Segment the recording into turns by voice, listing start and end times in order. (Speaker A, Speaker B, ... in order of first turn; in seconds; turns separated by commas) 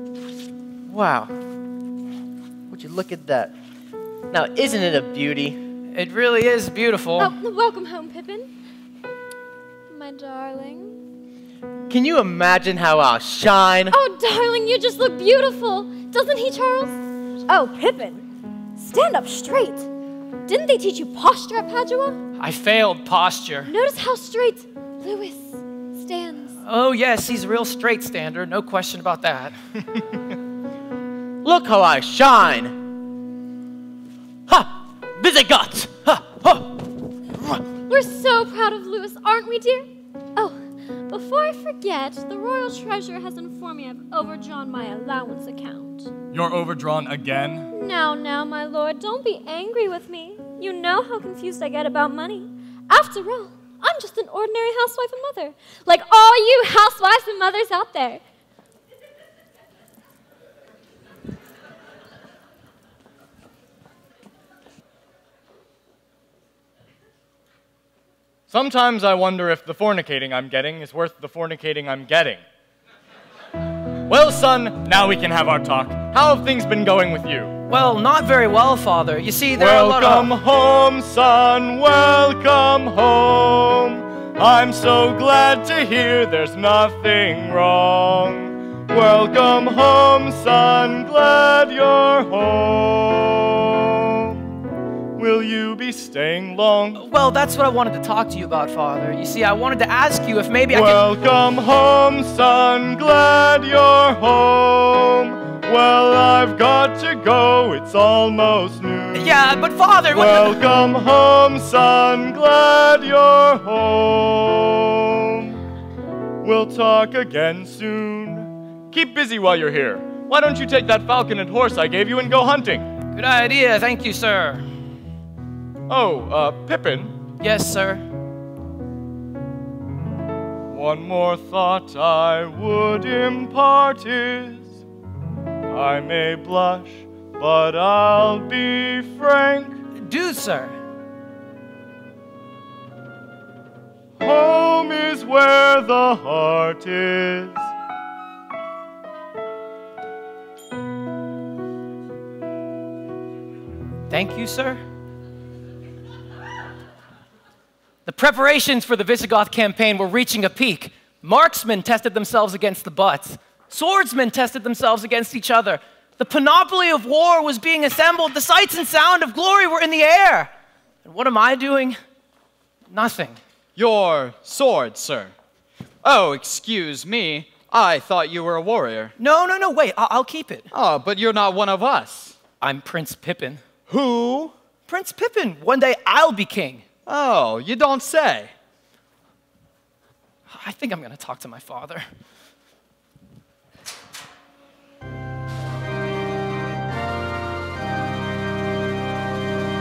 Speaker A: 0.9-1.3, Speaker A: 2.7-3.5, Speaker A: 4.3-5.6, Speaker B: 5.9-7.3, Speaker C: 7.2-8.5, Speaker C: 9.9-11.0, Speaker A: 11.9-14.0, Speaker C: 13.9-17.0, Speaker C: 17.5-18.2, Speaker C: 18.8-19.9, Speaker C: 20.5-22.2, Speaker B: 22.4-23.7, Speaker C: 23.7-26.6, Speaker B: 26.6-29.6, Speaker A: 31.4-32.8, Speaker A: 34.5-36.6, Speaker C: 37.9-46.1, Speaker D: 46.3-47.7, Speaker C: 47.7-58.2, Speaker D: 68.5-72.4, Speaker D: 74.1-77.5, Speaker B: 77.7-80.3, Speaker D: 79.5-94.5, Speaker D: 95.2-97.0, Speaker B: 97.0-101.1, Speaker D: 100.7-109.3, Speaker B: 109.2-110.6, Speaker D: 110.1-115.6, Speaker D: 116.4-122.9, Speaker B: 123.2-124.7, Speaker D: 125.9-127.1, Speaker B: 127.4-128.1, Speaker D: 130.7-134.8, Speaker D: 135.7-139.8, Speaker B: 140.0-140.8, Speaker D: 144.2-147.7, Speaker B: 154.1-154.8, Speaker B: 158.1-170.5, Speaker B: 171.1-172.0, Speaker B: 172.9-173.4, Speaker E: 173.8-175.3, Speaker E: 176.0-179.1, Speaker B: 179.2-180.7, Speaker E: 180.7-182.4, Speaker B: 182.6-183.6, Speaker E: 183.9-184.5, Speaker B: 184.9-186.8, Speaker E: 187.1-188.5, Speaker B: 190.5-192.1